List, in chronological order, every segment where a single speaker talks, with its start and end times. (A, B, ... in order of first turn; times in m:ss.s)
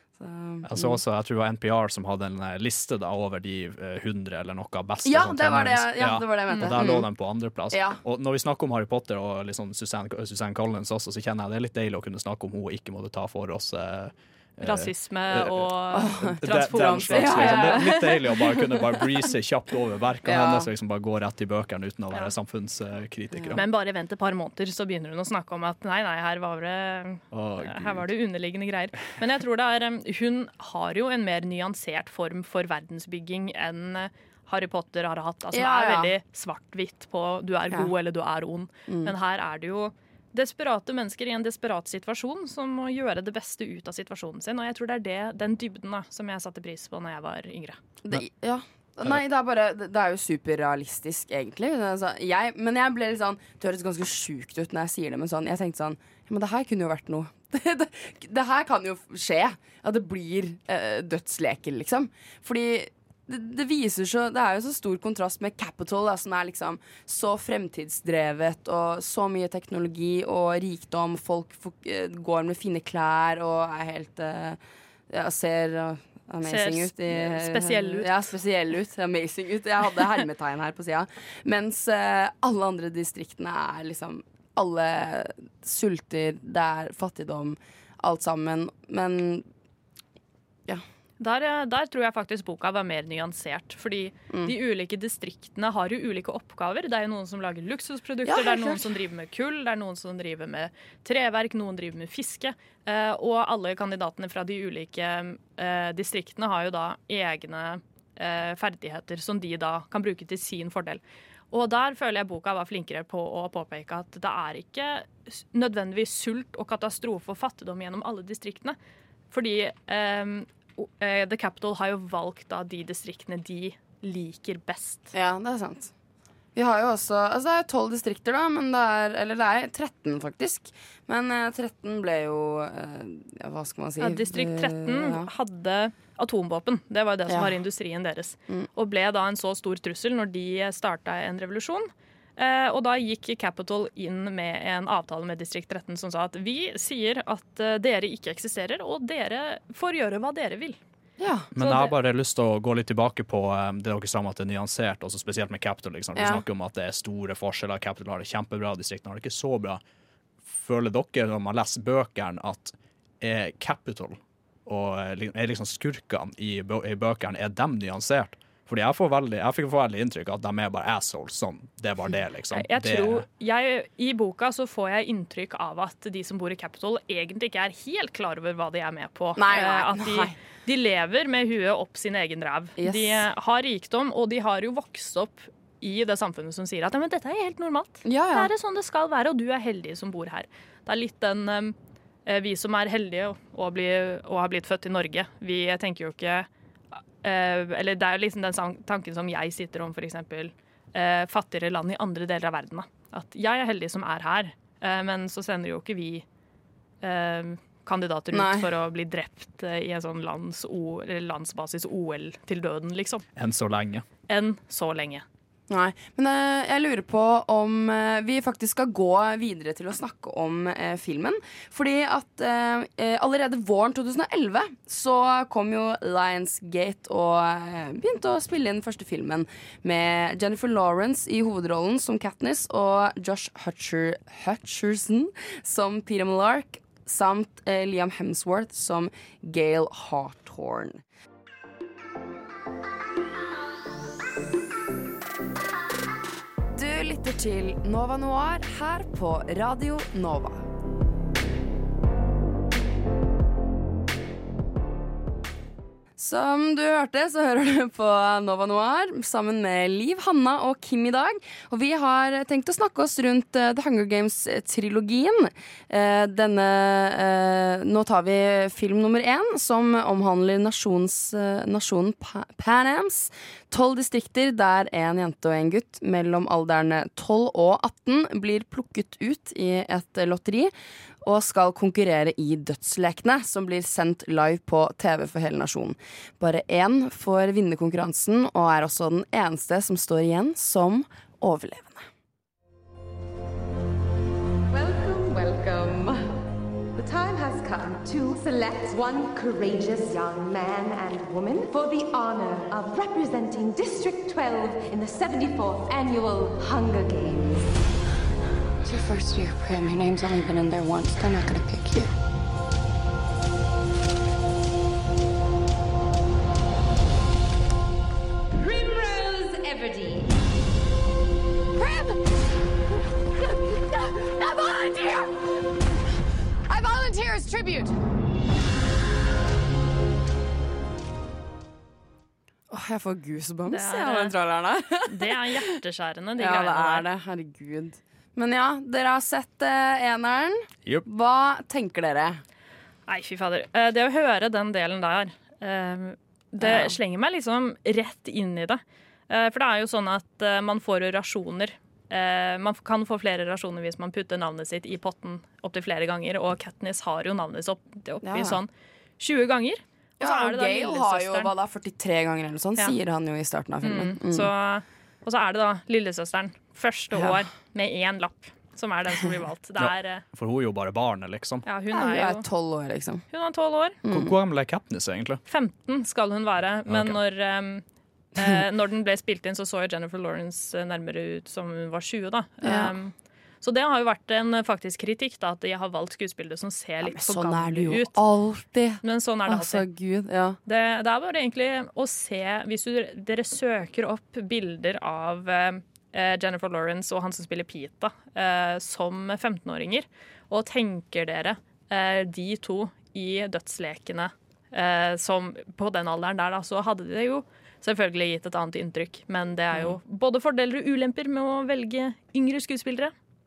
0:00.2-0:01.0 A
0:00.6-0:23.6 B
0:05.0-0:07.1 A
0:07.7-0:08.0 A
0:14.6-0:17.9 C
0:15.9-0:19.0 A
0:20.2-0:20.7 A
0:23.3-0:23.6 A
0:23.6-0:47.8 C
0:27.3-0:28.0 B
0:35.5-0:36.1 A
0:38.9-0:39.1 A
0:48.0-1:14.6 A
1:15.1-1:29.4 A
1:16.4-1:18.1 C
1:31.2-1:58.8 C
1:38.3-1:38.8 A
1:59.3-2:05.1 C
2:05.1-2:05.9 A
2:06.6-2:15.3 A
2:14.0-2:30.8 C
2:17.3-2:17.5 A
2:31.2-2:31.5 A
2:31.6-2:39.8 B
2:31.6-2:31.9 C
2:36.2-2:36.4 A
2:40.4-2:53.3 B
2:52.5-3:11.8 C
2:59.4-3:00.4 A
3:02.8-3:03.2 A
3:08.0-3:08.5 A
3:12.3-3:16.5 C
3:17.2-3:26.2 C
3:27.0-3:33.2 C
3:28.3-3:28.7 A
3:33.4-3:34.1 B
3:34.3-3:35.2 C
3:35.7-4:01.0 A
4:06.7-4:10.6 A
4:16.2-4:40.7 A
4:41.2-4:52.1 A
4:54.7-4:56.2 D
4:57.0-5:07.7 D
5:08.8-5:12.1 E
5:18.6-5:20.3 E
5:21.8-5:22.2 E
5:23.4-5:25.4 E
5:26.7-5:28.0 E
5:32.7-5:35.8 A
5:33.7-5:34.4 C
5:35.1-5:37.1 C
5:36.4-5:42.4 A
5:43.1-6:01.5 C
5:46.6-5:47.0 A
5:58.2-5:58.6 A
6:00.2-6:04.5 A
6:03.8-6:10.2 C
6:07.1-6:07.4 A
6:09.8-6:11.6 B
6:11.6-6:12.5 C
6:11.9-6:13.2 A
6:13.3-6:14.0 C
6:14.0-6:14.4 A
6:14.1-6:15.4 B
6:15.5-6:17.8 C
6:16.9-6:17.2 B
6:18.4-6:28.2 C
6:22.6-6:22.9 A
6:27.0-6:30.6 A
6:29.0-6:29.8 C
6:30.7-6:53.1 C